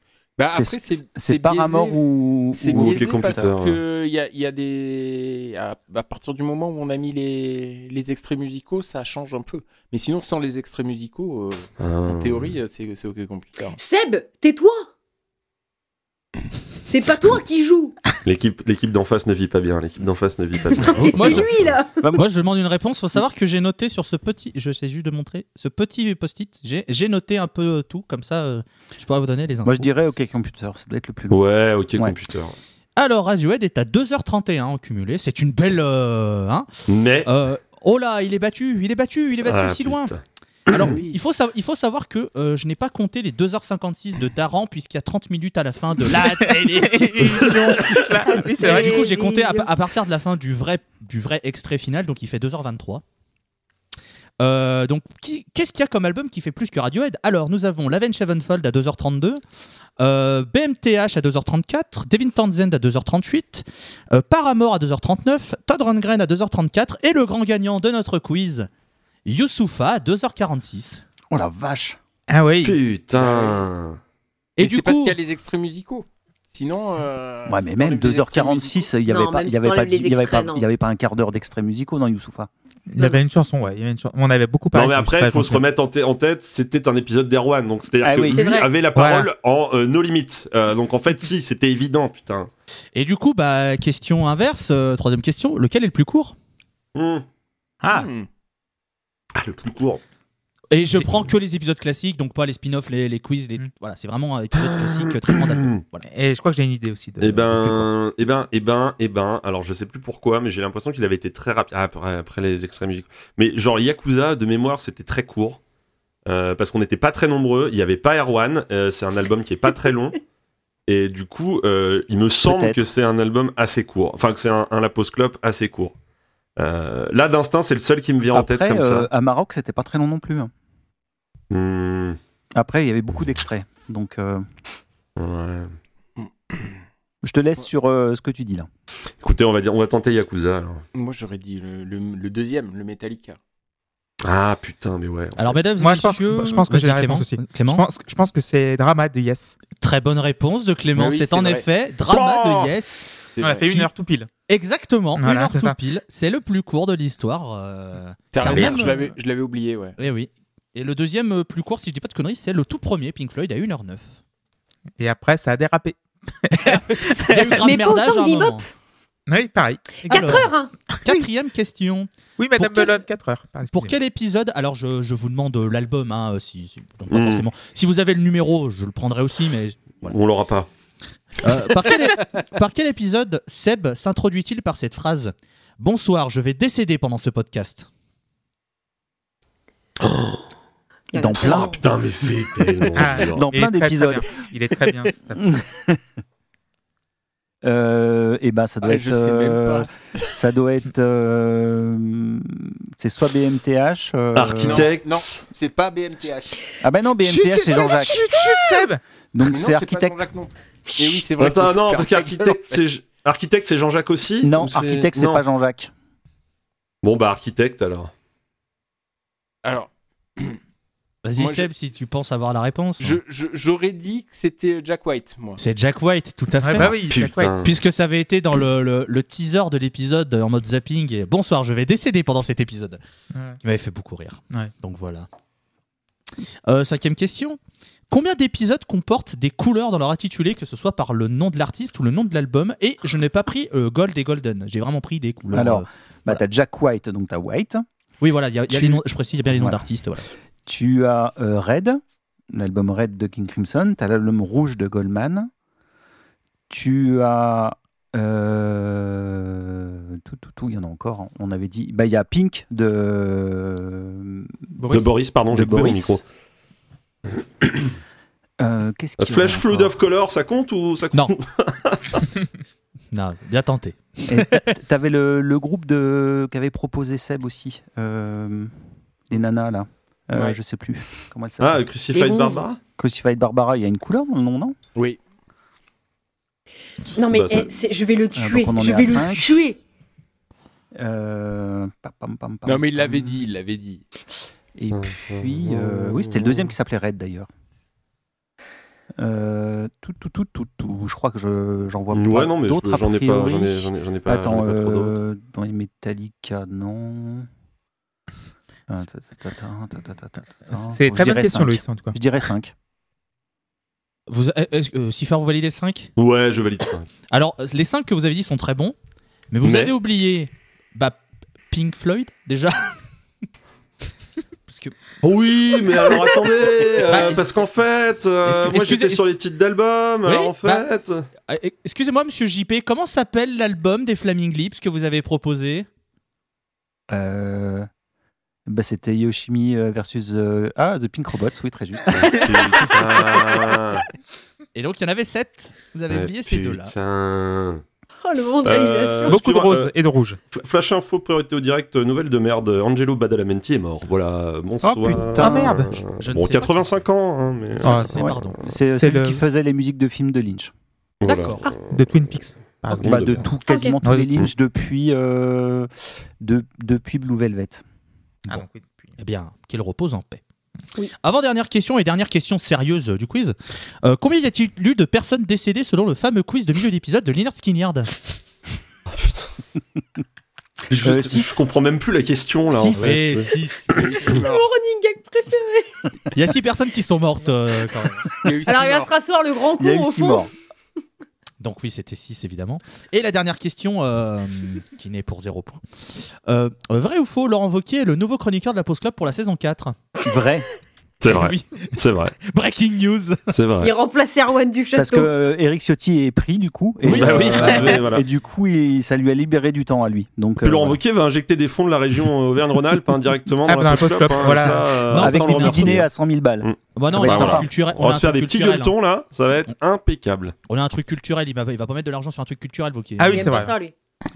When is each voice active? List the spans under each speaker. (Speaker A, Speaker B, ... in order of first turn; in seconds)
Speaker A: 0.4-2.0, 2.5-13.8, 73.2-73.7, 74.6-78.9, 97.9-98.3, 136.2-136.7, 140.9-143.4, 151.0-151.7, 153.4-153.7, 158.3-160.0, 198.8-200.4, 204.6-206.8, 209.5-212.8, 219.6-220.6, 221.4-221.7, 223.0-225.6, 292.6-294.1, 383.9-384.7, 388.4-389.1
Speaker B: 0.5-3.5, 21.0-21.4, 29.6-31.4, 71.3-72.0, 77.5-82.5, 88.0-88.5, 122.4-122.8, 128.3-130.5, 132.6-134.5, 137.2-138.7, 191.2-191.7, 193.3-194.3, 195.4-196.0, 197.6-204.9, 206.8-208.2, 209.3-210.3, 214.4-215.9, 245.5-247.9, 248.7-249.0, 249.5-249.8, 250.7-252.0, 252.5-255.5, 256.7-264.8, 265.5-266.2, 268.6-269.9, 274.3-278.7, 279.3-281.9, 283.0-284.8, 288.4-289.6, 290.9-293.4, 294.8-297.5, 299.2-307.5, 308.9-312.7, 337.1-337.9, 338.7-342.4, 354.8-355.9, 358.1-360.7, 363.0-367.8, 381.0-381.6, 382.7-383.5, 389.8-390.5, 400.2-400.7, 405.0-411.0, 415.1-417.7
Speaker C: 2.7-3.8, 11.8-12.5, 18.2-21.5, 31.3-32.6, 36.9-37.3, 39.5-40.2, 40.7-41.0, 72.6-74.0, 84.7-92.5, 97.0-97.2, 99.3-100.0, 104.6-105.8, 107.2-115.6, 116.3-120.2, 120.9-126.0, 126.6-129.1, 131.5-132.2, 135.2-135.7, 139.2-140.8, 144.2-145.6, 152.1-152.7, 177.1-177.4, 180.0-180.7, 190.0-190.5, 191.4-193.5, 204.3-205.4, 211.4-215.4, 217.0-218.1, 226.8-227.7, 264.9-266.2, 269.2-272.2, 281.6-282.8, 287.3-287.7, 294.9-296.7, 302.1-305.2, 316.2-317.1, 319.6-319.9, 325.2-331.3, 342.1-344.1, 346.1-347.8, 348.6-349.9, 350.5-358.3, 361.2-362.0, 362.9-363.5, 379.1-379.5, 380.9-384.0, 401.2-402.4, 403.5-403.9, 407.1-408.2, 410.6-416.1, 416.6-420.6
Speaker D: 13.8-14.9, 16.9-18.0, 20.8-22.0, 48.2-49.7, 79.1-80.7, 88.3-88.7, 167.6-168.7, 170.0-170.7, 191.1-191.8, 210.9-211.2, 282.1-282.6, 287.1-289.8, 348.2-349.4, 363.7-364.0, 384.2-386.0, 388.7-390.5, 403.8-405.3, 423.3-423.9
Speaker E: 21.0-21.5, 22.1-29.8, 33.0-36.7, 37.2-40.1, 40.7-48.0, 48.5-53.0, 54.4-59.4, 60.0-68.7, 69.2-71.0, 74.6-75.2, 93.0-96.3, 100.7-106.0, 145.4-147.8, 149.7-153.0, 154.5-159.1, 160.0-164.0, 166.5-168.7, 170.1-170.5, 171.0-173.0, 173.7-180.2, 181.4-187.9, 221.2-223.2, 225.6-233.0, 233.6-235.3, 236.7-237.6, 238.1-246.4, 248.2-250.3, 264.8-265.1, 273.1-274.8, 314.3-316.1, 317.3-319.0, 319.5-323.0, 324.7-324.9, 327.0-327.5, 328.4-329.3, 330.2-330.9, 331.5-335.9, 342.8-343.4, 344.8-346.9, 356.2-357.0, 357.8-358.6, 361.2-361.7, 369.2-370.4, 371.2-378.1, 383.0-384.2, 386.3-388.3, 391.6-395.8, 396.5-400.0, 401.2-403.6, 407.0-408.0, 414.7-416.1, 416.9-418.9, 420.7-423.6
Speaker F: 46.5-49.0, 72.3-72.8, 82.9-85.6, 89.0-89.3, 97.8-98.1, 106.1-107.9, 145.8-149.6, 153.4-154.3, 155.2-155.8, 165.0-167.6, 169.3-171.2, 172.4-173.9, 193.0-195.6, 207.3-209.0, 226.6-227.6, 233.3-233.6, 310.8-312.2, 349.3-350.4, 355.4-355.9, 357.8-358.2, 358.9-359.4, 361.9-363.3, 364.0-364.3, 368.5-369.1, 413.7-414.9, 423.2-423.8